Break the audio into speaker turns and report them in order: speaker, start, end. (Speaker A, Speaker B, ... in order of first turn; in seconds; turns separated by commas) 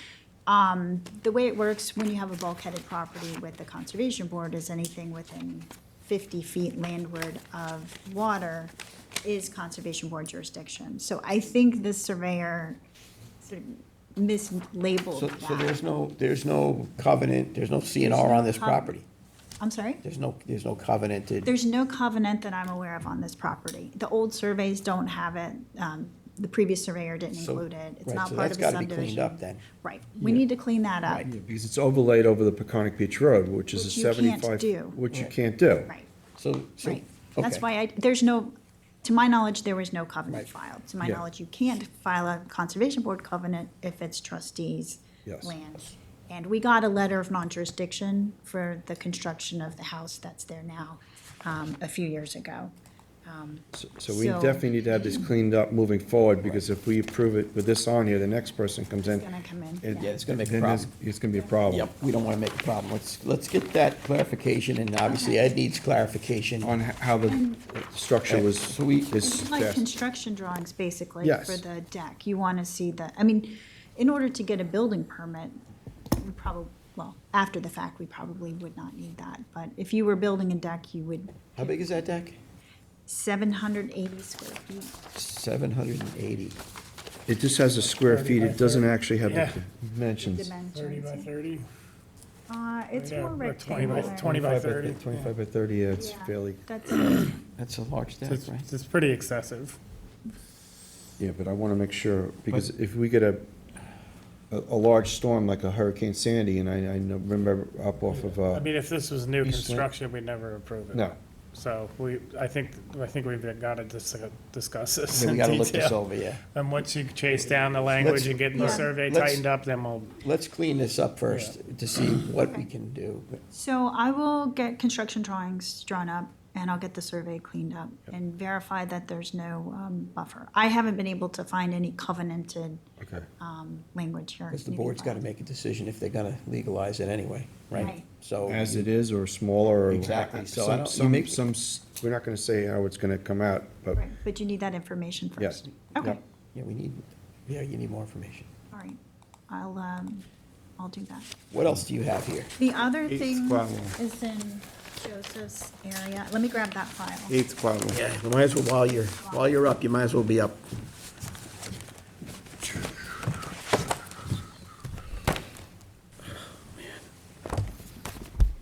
Speaker A: 0.5-12.8, Speaker A: 13.4-15.8, Speaker B: 15.1-19.1, Speaker A: 18.0-19.0, Speaker A: 19.6-20.0, Speaker B: 20.0-21.5, Speaker A: 21.4-31.3, Speaker B: 27.3-29.6, Speaker C: 31.2-35.9, Speaker A: 33.7-35.0, Speaker B: 36.4-37.6, Speaker A: 36.8-52.7, Speaker C: 45.2-45.6, Speaker A: 53.3-55.3, Speaker C: 53.7-59.3, Speaker A: 59.0-60.1, Speaker C: 59.8-61.9, Speaker B: 60.0-60.9, Speaker B: 61.7-66.7, Speaker A: 65.0-65.5, Speaker C: 66.6-69.9, Speaker A: 67.3-67.7, Speaker B: 68.3-69.3, Speaker A: 69.2-75.6, Speaker C: 71.2-71.6, Speaker A: 76.2-81.8, Speaker B: 81.6-82.4, Speaker A: 83.1-84.9, Speaker B: 85.2-86.6, Speaker C: 87.3-90.5, Speaker D: 88.0-89.6, Speaker A: 90.2-91.3, Speaker D: 90.7-91.7, Speaker A: 92.5-94.4, Speaker D: 93.0-95.3, Speaker C: 94.2-96.6, Speaker A: 96.0-97.3, Speaker B: 97.4-98.7, Speaker D: 98.2-99.8, Speaker C: 101.2-103.5, Speaker C: 104.5-108.7, Speaker D: 108.5-120.2, Speaker C: 109.4-109.9, Speaker C: 115.1-116.1, Speaker B: 115.4-116.4, Speaker B: 118.0-119.4, Speaker A: 118.5-118.9, Speaker B: 120.2-123.4, Speaker D: 121.3-121.5, Speaker A: 123.5-132.8, Speaker C: 133.0-133.3, Speaker A: 133.4-135.2, Speaker B: 134.5-138.9, Speaker A: 137.8-138.1, Speaker C: 138.4-144.0, Speaker B: 139.9-141.4, Speaker A: 143.9-146.2, Speaker C: 145.4-146.2, Speaker B: 146.5-148.5, Speaker A: 148.7-150.3, Speaker A: 150.8-151.3, Speaker B: 151.5-152.5, Speaker A: 152.6-157.3, Speaker C: 153.1-154.0, Speaker C: 157.3-158.0, Speaker B: 157.9-160.6, Speaker A: 159.2-159.5